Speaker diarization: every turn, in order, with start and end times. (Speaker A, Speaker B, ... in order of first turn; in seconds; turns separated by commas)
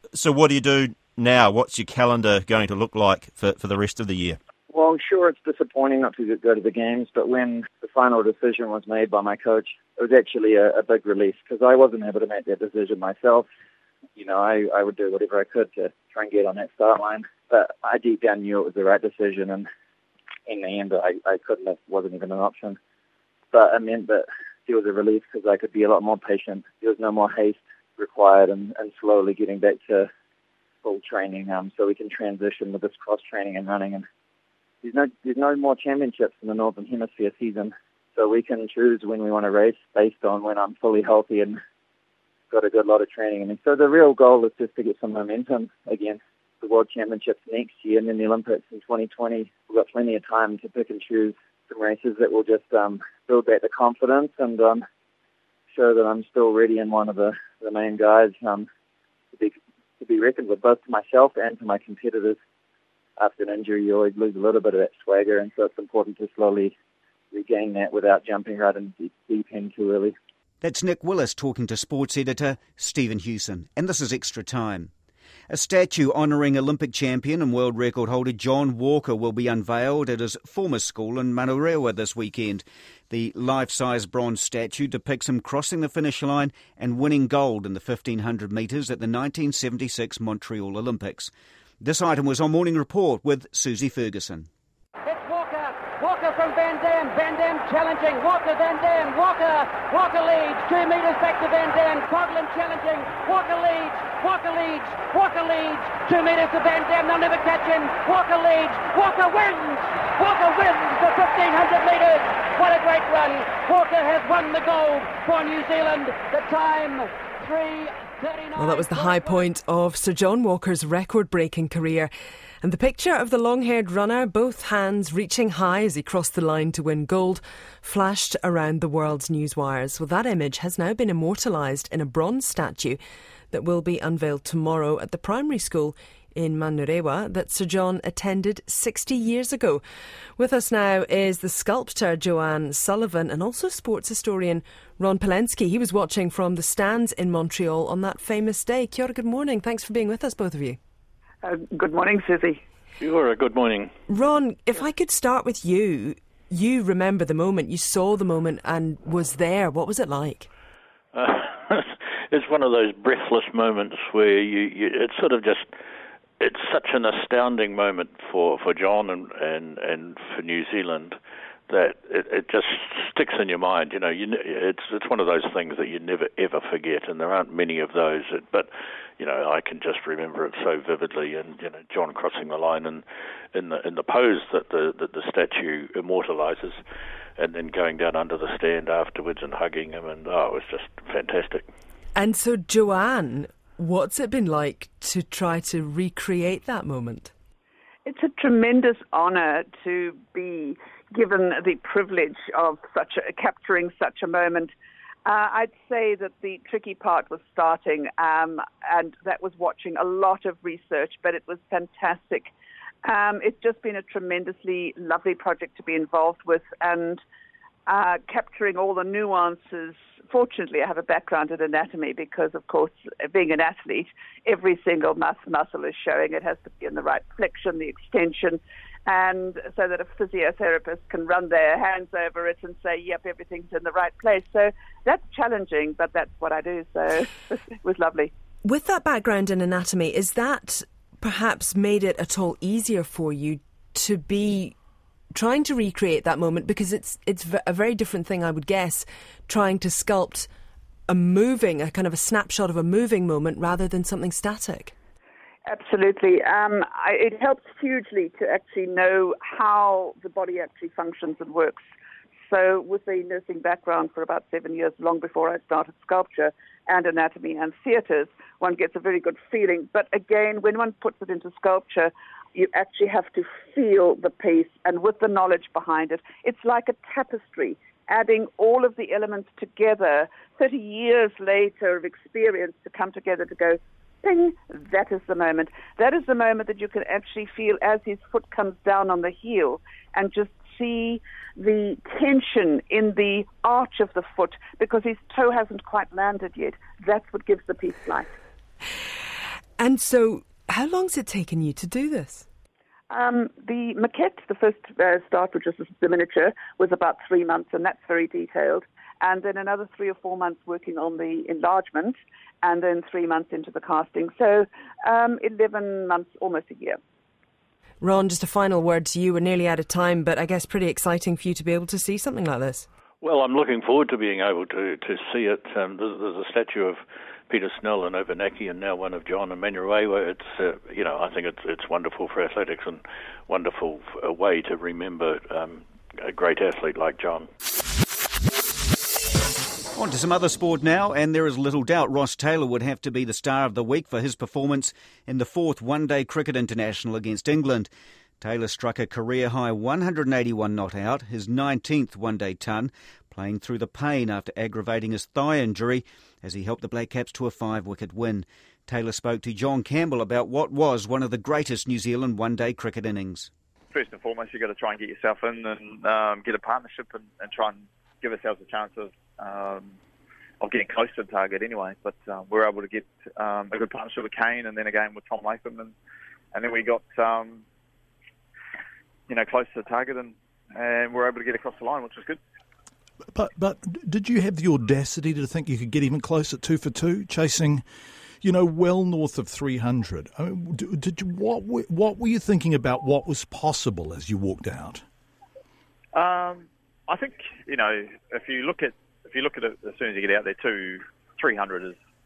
Speaker A: 0.1-4.4, Speaker B: 4.7-13.4, Speaker B: 14.2-19.7, Speaker B: 20.5-22.8, Speaker B: 23.5-30.1, Speaker B: 30.8-34.0, Speaker B: 34.8-41.6, Speaker B: 42.5-54.8, Speaker B: 55.7-58.7, Speaker B: 59.3-62.4, Speaker B: 63.2-66.7, Speaker B: 67.3-70.1, Speaker C: 70.6-74.9, Speaker C: 75.5-94.5, Speaker D: 95.0-119.4, Speaker E: 118.5-122.1, Speaker E: 122.6-133.0, Speaker E: 133.5-139.8, Speaker E: 140.4-150.8, Speaker F: 151.4-152.6, Speaker G: 153.0-153.9, Speaker E: 154.1-160.5, Speaker G: 161.1-165.7, Speaker G: 166.4-171.2, Speaker G: 171.7-186.8, Speaker G: 187.4-191.7, Speaker E: 192.2-197.3, Speaker F: 198.1-204.7, Speaker F: 205.2-212.5, Speaker F: 213.0-217.2, Speaker F: 217.9-238.3, Speaker E: 238.6-244.7, Speaker E: 245.3-250.5, Speaker E: 251.1-254.9, Speaker F: 255.7-261.8, Speaker F: 262.5-298.3, Speaker E: 299.8-302.4, Speaker F: 303.1-317.0, Speaker E: 318.0-322.9, Speaker G: 323.2-337.5, Speaker C: 339.9-347.9, Speaker C: 348.4-363.5, Speaker H: 363.9-369.9, Speaker H: 370.6-375.9, Speaker H: 376.5-377.6, Speaker H: 379.3-382.4, Speaker I: 383.3-387.8, Speaker I: 388.4-395.0, Speaker H: 396.1-402.0